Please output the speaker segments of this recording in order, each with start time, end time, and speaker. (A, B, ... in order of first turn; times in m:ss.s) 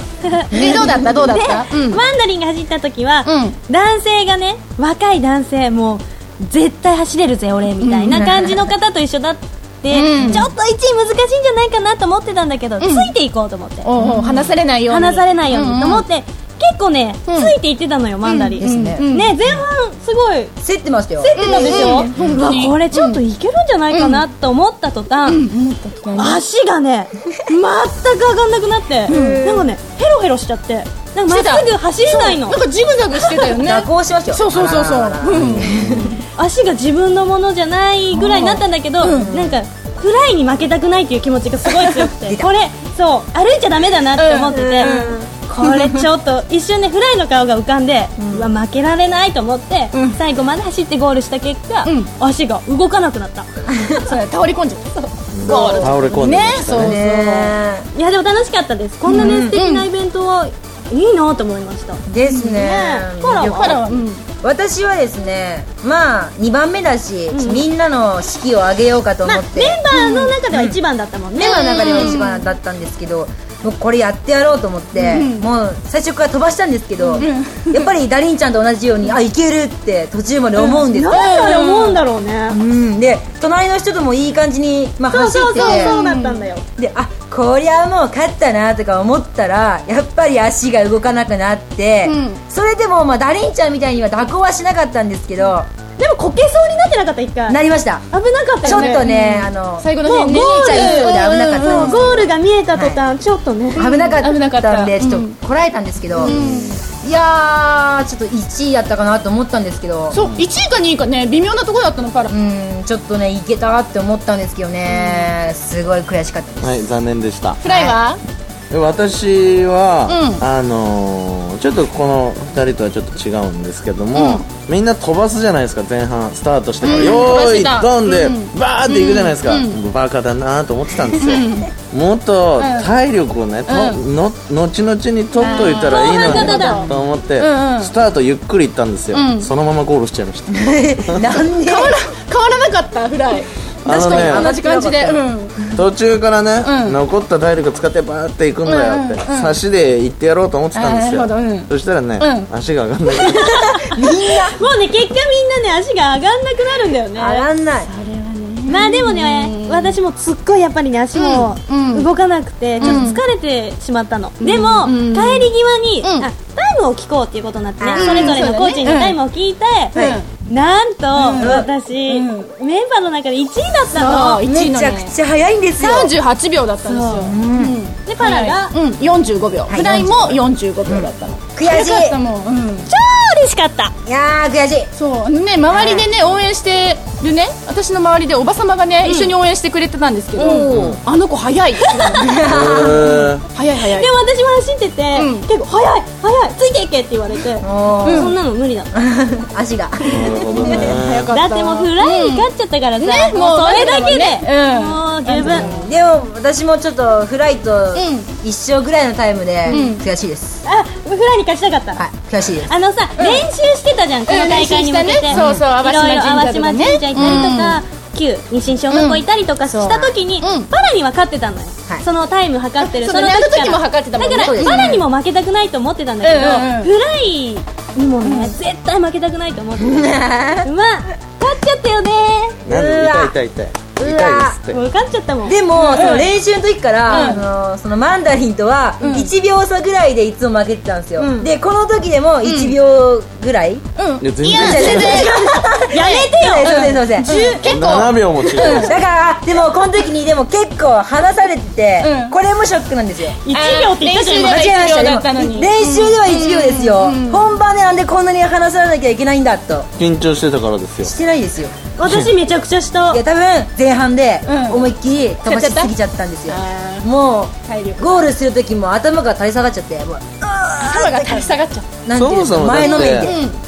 0:00.3-0:13.9 A
0:00.5-0:01.1 B
0:00.5-0:02.0 C
0:03.2-0:03.6 C
0:07.8-0:08.2 C
0:09.9-0:10.5 C
0:12.8-0:13.1 C
0:13.8-0:16.0 C
0:14.0-0:14.4 B
0:14.9-0:20.5 A
0:17.3-0:17.5 C
0:18.2-0:19.4 C
0:18.6-0:19.0 B
0:20.6-0:22.5 B
0:21.2-0:25.4 A
0:21.3-0:23.2 C
0:23.9-0:24.2 C
0:25.3-0:26.4 C
0:26.2-0:32.6 A
0:29.1-0:29.6 B
0:29.1-0:29.6 C
0:31.3-0:36.2 C
0:33.2-0:33.5 A
0:33.6-0:36.2 B
0:35.3-0:36.0 D
0:36.4-0:53.5 A
0:38.1-0:39.3 C
0:39.0-0:39.6 B
0:44.2-0:46.0 C
0:44.6-0:45.2 B
0:54.0-0:57.5 C
0:55.3-0:57.0 D
0:55.4-0:55.9 A
0:56.7-0:57.9 B
0:57.9-1:02.0 A
0:59.0-0:59.9 C
0:59.2-0:59.6 B
1:02.1-1:09.8 B
1:02.3-1:02.6 C
1:02.5-1:03.8 A
1:03.4-1:04.2 C
1:07.3-1:07.7 A
1:09.2-1:12.2 A
1:09.9-1:10.3 C
1:10.5-1:10.8 B
1:11.4-1:26.0 B
1:11.4-1:12.5 C
1:15.0-1:15.5 C
1:17.2-1:17.9 C
1:20.6-1:21.6 C
1:20.9-1:22.6 A
1:25.1-1:26.6 A
1:25.6-1:26.4 C
1:26.8-1:35.7 B
1:32.0-1:32.4 C
1:36.0-1:39.0 A
1:37.5-1:38.0 B
1:38.6-1:42.3 C
1:38.6-1:39.9 B
1:40.0-1:43.9 A
1:40.4-1:42.2 B
1:42.7-1:43.0 B
1:43.8-1:50.2 B
1:43.8-1:45.3 C
1:46.1-1:46.8 C
1:50.1-1:52.3 C
1:50.1-1:50.4 D
1:52.3-1:56.8 B
1:54.9-1:55.3 C
1:56.6-1:57.6 D
1:57.6-1:58.2 C
1:57.6-1:58.0 B
1:58.7-2:21.3 D
2:00.1-2:00.4 C
2:04.1-2:04.4 C
2:06.8-2:09.8 C
2:11.2-2:11.7 C
2:12.6-2:12.9 C
2:13.7-2:14.0 C
2:15.4-2:17.9 C
2:15.4-2:16.9 A
2:19.1-2:19.5 C
2:20.5-2:21.9 B
2:21.6-2:25.6 C
2:23.8-2:25.2 B
2:23.8-2:24.5 D
2:25.6-2:33.6 D
2:26.6-2:27.0 C
2:28.6-2:29.6 C
2:30.7-2:32.5 C
2:33.1-2:34.0 A
2:33.4-2:34.6 B
2:34.5-2:37.4 A
2:37.2-2:37.9 B
2:37.9-2:40.0 C
2:38.6-2:54.4 A
2:41.1-2:42.1 C
2:42.8-2:43.2 C
2:44.4-2:45.5 C
2:46.0-2:46.3 C
2:47.8-2:48.4 B
2:48.0-2:49.2 C
2:49.9-2:50.2 C
2:51.1-2:52.5 C
2:51.4-2:51.7 B
2:53.9-2:55.1 C
2:54.3-2:56.1 B
2:55.8-3:02.9 C
2:56.8-2:57.4 A
2:57.2-2:57.8 B
2:58.0-2:58.7 A
2:59.7-3:02.2 B
3:02.9-3:03.9 A
3:04.0-3:04.9 B
3:05.0-3:14.1 C
3:05.7-3:06.1 B
3:09.0-3:09.3 A
3:10.3-3:11.0 B
3:10.7-3:11.0 D
3:11.8-3:12.2 A
3:12.2-3:13.1 B
3:12.4-3:13.5 D
3:13.8-3:18.9 A
3:15.1-3:15.5 C
3:17.6-3:18.3 B
3:18.0-3:18.3 C
3:19.0-3:21.0 B
3:20.1-3:21.4 D
3:20.6-3:22.5 C
3:21.3-3:25.7 A
3:23.0-3:25.9 C
3:25.4-3:30.6 B
3:27.9-3:28.4 C
3:29.6-3:30.0 C
3:30.6-3:32.0 A
3:32.0-3:32.7 B
3:32.6-3:52.6 A
3:33.2-3:33.4 C
3:34.3-3:37.8 C
3:35.3-3:35.6 B
3:38.9-3:40.7 C
3:42.8-3:44.8 C
3:44.3-3:45.0 B
3:46.2-3:46.9 C
3:48.2-3:48.5 C
3:49.8-3:50.7 B
3:52.6-3:54.8 D
3:52.7-3:53.3 B
3:54.0-3:54.6 B
3:54.7-3:56.2 A
3:55.4-4:03.8 B
3:55.7-3:56.3 C
3:57.1-3:57.4 A
3:57.1-3:57.4 C
3:59.0-3:59.3 C
4:01.2-4:01.5 A
4:02.4-4:02.8 C
4:04.0-4:08.9 C
4:04.2-4:05.3 D
4:04.4-4:07.4 B
4:05.9-4:07.9 A
4:07.6-4:08.9 D
4:08.6-4:13.4 B
4:12.0-4:12.3 C
4:13.4-4:14.7 A
4:13.5-4:17.4 C
4:14.4-4:19.9 B
4:20.0-4:21.1 D
4:21.0-4:21.7 B
4:22.0-4:23.2 A
4:22.0-4:22.3 D
4:23.1-4:31.5 B
4:24.4-4:24.9 C
4:25.4-4:25.9 C
4:26.5-4:27.1 C
4:27.7-4:28.3 C
4:30.8-4:31.8 C
4:32.0-4:33.4 B
4:32.1-4:33.3 D
4:32.7-4:33.6 C